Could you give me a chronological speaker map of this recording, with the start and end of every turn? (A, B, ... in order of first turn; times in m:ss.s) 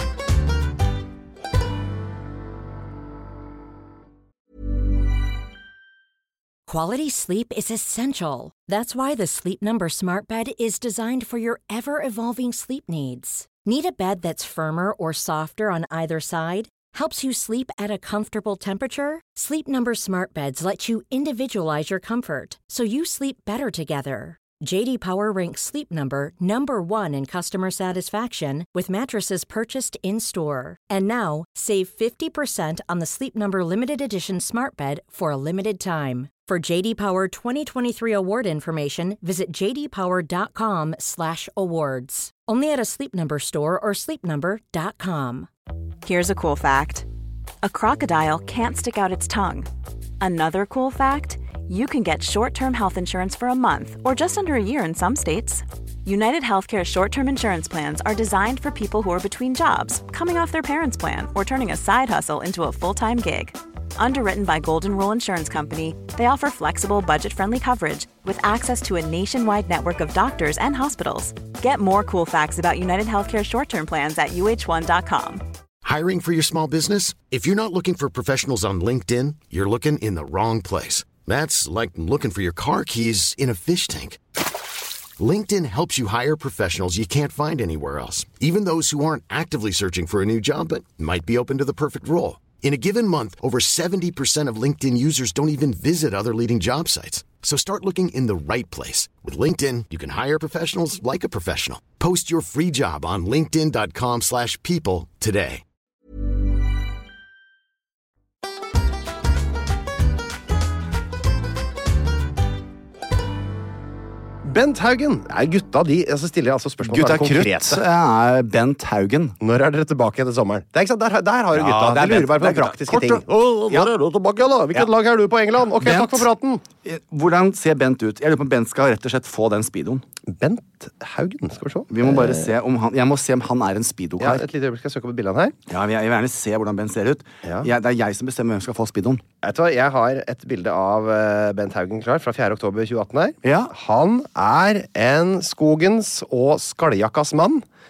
0:06.7-0:45.5 A
0:46.0-0:47.0 B
0:47.6-0:49.7 B
0:50.2-1:15.4 B
1:15.8-1:24.2 C
1:25.2-1:45.6 C
1:54.4-1:57.8 D
1:56.8-1:59.4 E
1:59.4-2:06.6 D
2:01.5-2:03.9 E
2:05.8-2:06.3 E
2:06.8-2:10.0 E
2:10.3-2:12.5 D
2:11.9-2:14.4 E
2:14.2-2:15.6 D
2:15.7-2:19.2 E
2:17.4-2:17.7 D
2:19.4-2:27.6 D
2:23.4-2:23.7 E